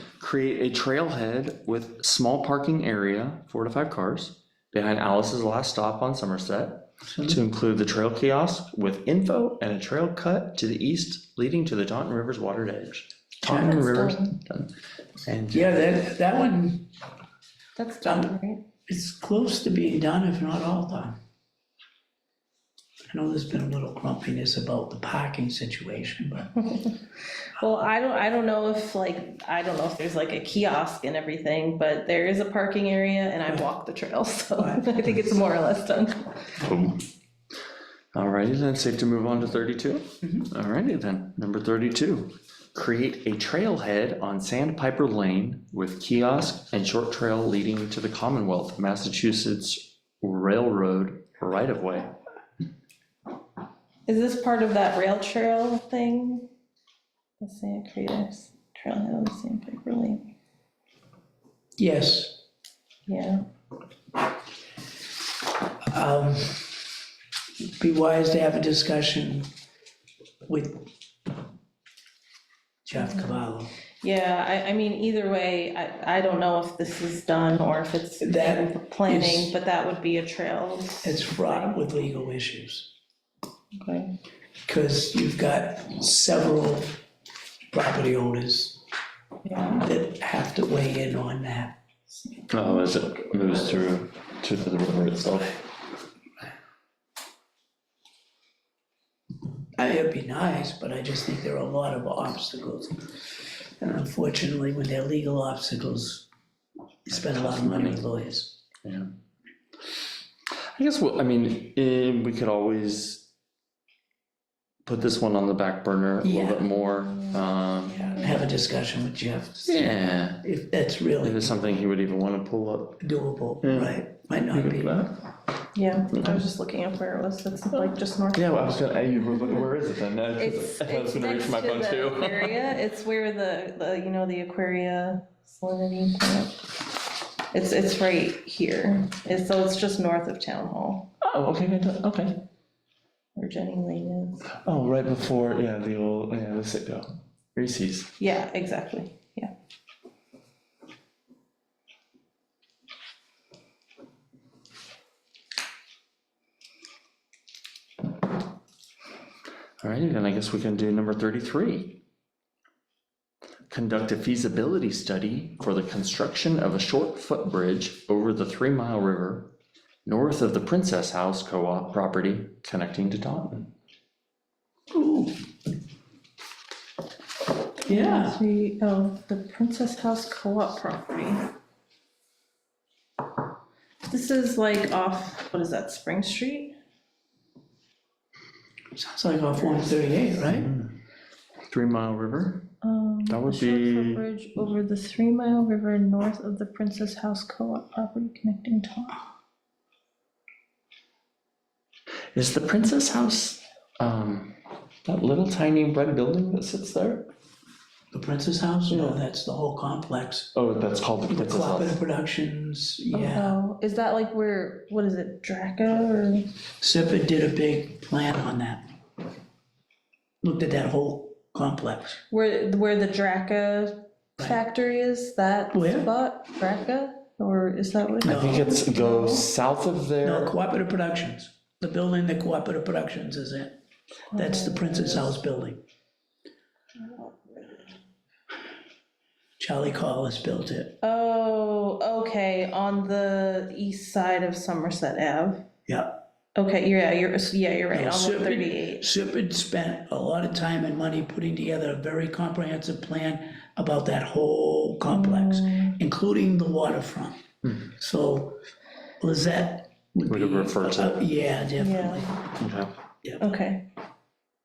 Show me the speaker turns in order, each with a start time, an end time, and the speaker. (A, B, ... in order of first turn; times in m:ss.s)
0:00.2-0:14.7 A
0:07.1-0:07.4 B
0:13.4-0:13.9 B
0:13.5-0:14.4 C
0:15.2-0:15.8 A
0:15.5-0:16.9 B
0:17.8-0:18.6 C
0:18.0-0:18.3 B
0:18.9-0:21.2 B
0:23.1-0:26.5 B
0:26.6-0:27.0 C
0:27.5-0:36.6 C
0:34.6-0:35.2 B
0:36.6-0:37.0 A
0:38.1-0:52.2 A
0:40.2-0:40.5 B
0:54.0-0:56.5 C
0:57.4-1:00.3 C
1:01.8-1:02.4 B
1:03.0-1:03.4 C
1:05.9-1:06.9 B
1:07.8-1:09.5 B
1:10.4-1:10.9 B
1:12.8-1:13.7 B
1:14.0-1:21.7 C
1:18.2-1:19.5 B
1:21.0-1:22.9 B
1:23.8-1:24.2 C
1:24.7-1:27.0 B
1:27.7-1:28.8 B
1:29.4-1:29.8 C
1:29.7-1:31.8 B
1:32.2-1:33.7 C
1:32.5-1:35.6 A
1:39.8-1:43.0 B
1:43.8-1:46.2 B
1:47.0-1:48.6 B
1:47.1-1:48.0 A
1:48.8-1:49.1 A
1:50.7-1:53.3 A
1:54.8-1:58.2 A
1:56.2-1:56.7 B
1:57.0-1:58.4 C
1:58.1-2:01.6 B
1:59.6-2:00.4 A
2:01.2-2:03.0 A
2:03.0-2:05.0 B
2:03.6-2:05.2 A
2:05.7-2:09.1 C
2:06.1-2:06.4 A
2:08.3-2:12.7 A
2:10.4-2:16.6 C
2:17.5-2:21.1 C
2:21.2-2:22.4 A
2:23.4-2:24.5 C
2:24.6-2:28.1 A
2:28.2-2:29.5 C
2:39.8-2:42.0 A
2:43.7-2:49.5 A
2:50.0-2:53.7 A
2:54.9-2:55.4 B
2:57.8-3:01.5 C
2:57.8-2:58.4 B
3:04.1-3:06.8 C
3:08.9-3:10.7 B
3:10.5-3:11.0 A
3:11.7-3:12.7 A
3:12.8-3:19.2 C
3:13.3-3:14.2 A
3:22.3-3:27.3 A
3:28.1-3:30.5 B
3:28.9-3:29.2 A
3:30.5-3:32.0 A
3:31.3-3:33.6 B
3:33.1-3:36.5 C
3:36.8-3:38.8 B
3:40.4-3:42.2 B
3:42.3-3:49.5 C
3:45.7-3:46.1 B
3:48.2-3:48.8 B
3:48.2-3:50.5 A
3:50.2-3:53.8 B
3:54.3-3:55.4 C
3:54.3-3:55.8 B
3:57.0-3:57.9 C
3:59.6-4:01.0 B
4:01.0-4:05.6 C
4:05.9-4:06.1 B
4:06.6-4:09.1 C
4:07.9-4:18.6 B
4:15.0-4:16.0 C
4:19.2-4:22.5 B
4:20.2-4:21.2 A
4:21.8-4:22.3 C
4:22.6-4:22.9 A
4:23.4-4:23.9 C